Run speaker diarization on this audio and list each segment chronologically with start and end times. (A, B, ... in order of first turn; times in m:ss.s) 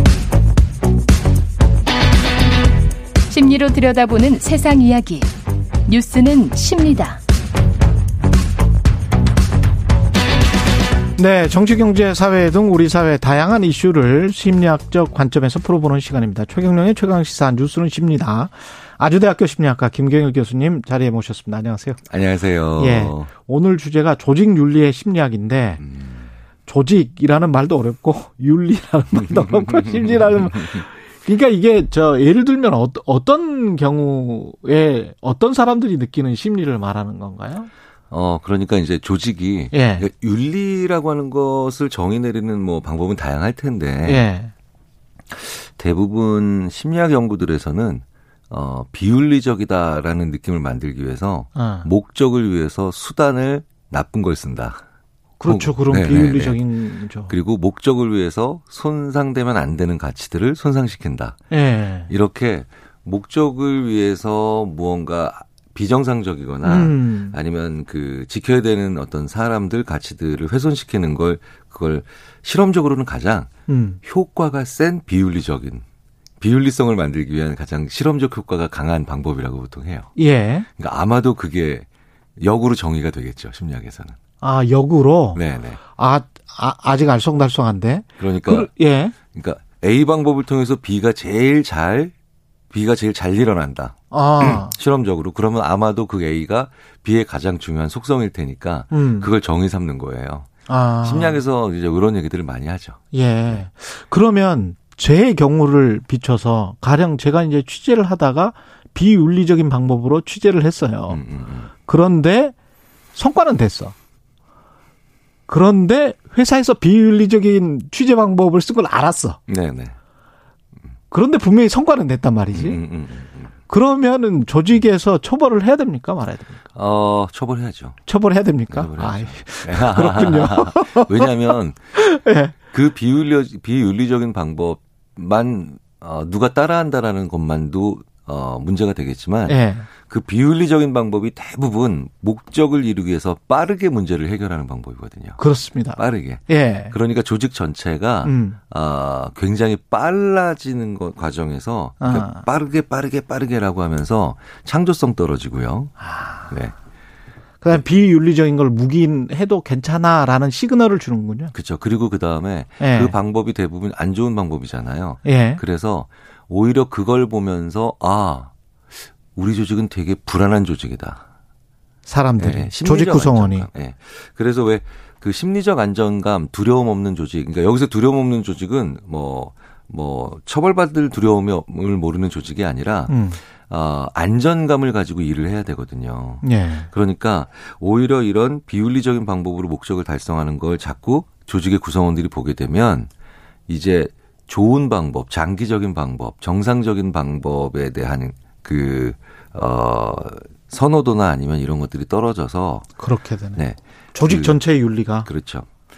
0:03.3-0:05.3 A
0:05.9-0:07.2 A
0:11.2-0:22.0 B
0:22.1-0:23.3 C
0:22.8-0:25.8 B
0:25.8-0:26.3 C
0:26.7-0:37.7 B
0:29.2-0:30.8 C
0:38.1-0:44.2 C
0:39.7-0:40.1 B
0:44.0-0:44.5 B
0:45.3-0:54.8 C
0:51.6-0:51.9 B
0:55.4-0:57.3 B
0:55.4-0:56.6 C
0:57.2-1:01.4 C
1:01.5-1:02.1 B
1:02.1-1:13.5 C
1:06.6-1:07.4 B
1:13.7-1:14.0 B
1:14.0-1:15.8 C
1:16.4-1:20.1 C
1:20.2-1:20.7 B
1:20.8-1:21.9 C
1:22.4-1:24.2 C
1:24.4-1:25.4 B
1:25.3-1:25.8 C
1:26.0-1:29.1 B
1:28.2-1:28.7 C
1:29.3-1:32.1 C
1:32.7-1:40.5 C
1:34.1-1:34.7 B
1:38.9-1:39.3 B
1:40.7-1:41.4 B
1:41.0-1:43.6 C
1:43.1-1:51.2 B
1:51.1-1:51.7 C
1:51.8-1:52.5 B
1:53.2-1:53.9 B
1:55.5-1:59.4 B
1:59.5-1:59.9 C
2:01.1-2:02.8 B
2:02.5-2:03.5 C
2:03.7-2:06.6 B
2:06.8-2:08.0 C
2:08.0-2:11.3 B
2:08.7-2:11.8 C
2:11.9-2:12.5 B
2:12.7-2:25.4 C
2:19.5-2:19.9 B
2:25.4-2:26.9 B
2:26.0-2:36.8 C
2:28.2-2:28.6 B
2:32.0-2:32.4 B
2:37.6-2:41.5 B
2:41.5-2:48.5 C
2:42.8-2:43.2 B
2:45.2-2:45.6 B
2:49.3-2:51.2 C
2:52.1-2:53.7 B
2:52.4-3:13.1 C
3:03.1-3:03.4 B
3:06.4-3:06.9 B
3:13.7-3:22.9 C
3:23.0-3:23.6 B
3:23.5-3:24.6 C
3:24.1-3:25.3 B
3:25.2-3:25.7 C